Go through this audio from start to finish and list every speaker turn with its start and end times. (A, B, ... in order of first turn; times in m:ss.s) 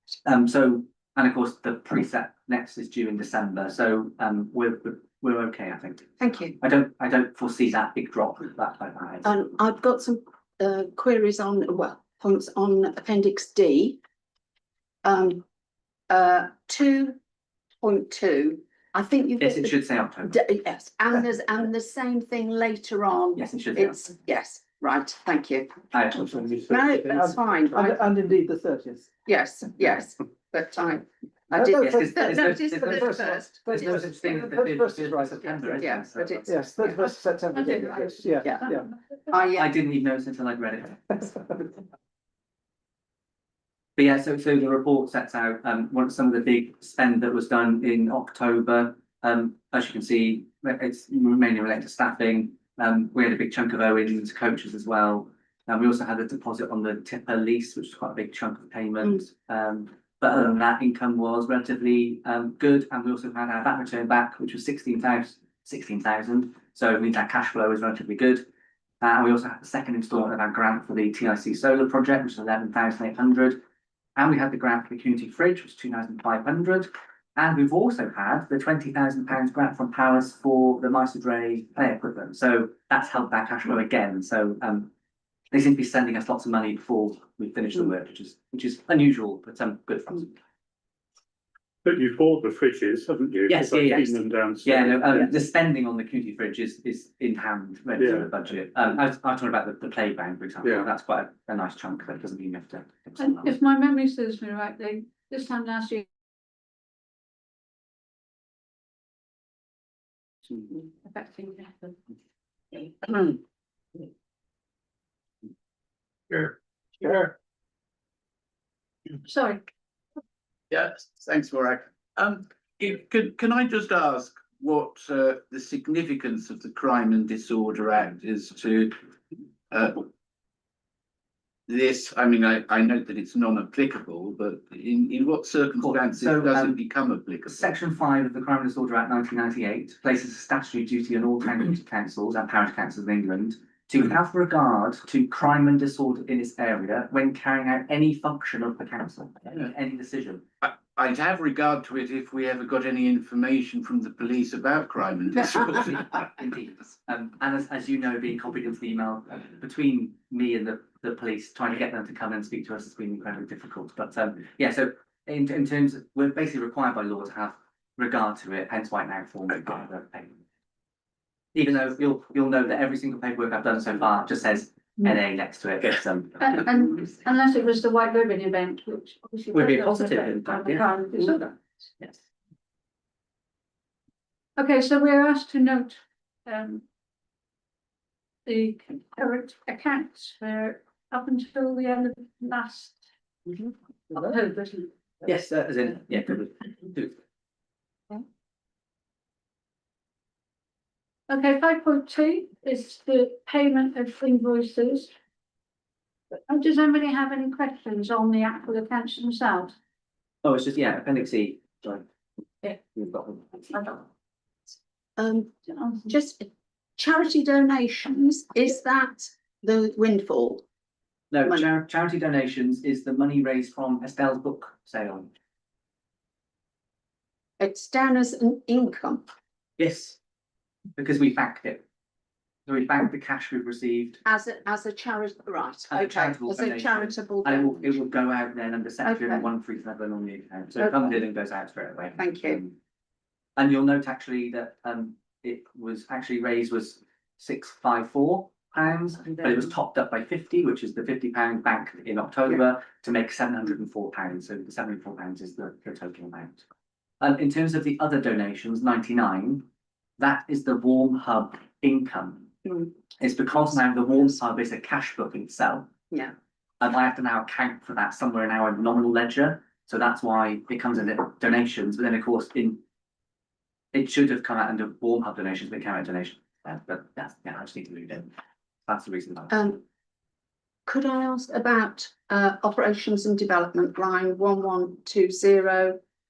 0:00.2-0:09.2 A
0:06.2-0:06.5 B
0:09.2-0:14.0 B
0:15.0-0:15.4 B
0:16.1-0:17.2 B
0:17.8-0:25.7 B
0:19.4-0:20.3 A
0:23.4-0:24.1 A
0:25.9-0:26.6 A
0:26.4-0:27.0 C
0:26.7-0:28.0 B
0:26.8-0:29.1 D
0:29.2-0:34.2 B
0:31.5-0:38.9 D
0:31.8-0:36.6 A
0:35.8-0:37.1 B
0:37.5-0:38.8 E
0:38.4-0:38.7 B
0:39.3-0:39.7 B
0:39.5-0:41.3 A
0:44.0-1:08.4 A
1:09.0-1:13.6 A
1:14.2-1:24.9 A
1:25.5-1:30.4 A
1:31.8-1:35.3 C
1:33.5-1:43.5 A
1:38.0-1:38.3 C
1:43.2-1:46.0 E
1:50.7-1:52.0 E
1:57.0-1:57.3 F
1:59.2-1:59.6 E
2:00.7-2:08.9 F
2:09.7-2:10.1 F
2:11.7-2:17.7 F
2:15.8-2:16.7 A
2:17.5-2:30.4 A
2:30.6-2:36.2 F
2:36.0-2:50.4 A
2:51.5-2:56.6 A
2:56.4-3:01.5 E
2:59.5-3:02.2 A
3:04.6-3:06.8 E
3:08.4-3:13.0 E
3:14.1-3:14.9 E
3:15.2-3:17.2 A
3:21.3-3:25.1 E
3:26.5-3:29.7 E
3:30.4-3:32.0 A
3:32.6-3:34.0 A
3:35.2-3:35.5 B
3:35.7-3:36.0 E
3:36.0-3:40.6 B
3:41.3-3:45.3 A
3:47.6-3:49.3 B
3:49.8-3:50.2 A
3:51.0-3:51.8 A
3:52.6-3:54.2 A
3:54.2-3:58.0 B
3:55.9-4:02.8 A
3:59.0-3:59.5 B
4:02.2-4:02.6 B
4:03.6-4:16.6 A
4:17.2-4:19.6 A
4:20.2-4:22.5 A
4:23.2-4:25.9 A
4:26.8-4:32.8 A
4:33.9-4:38.3 A
4:38.8-4:39.5 A
4:39.5-4:39.8 B
4:40.9-4:46.0 B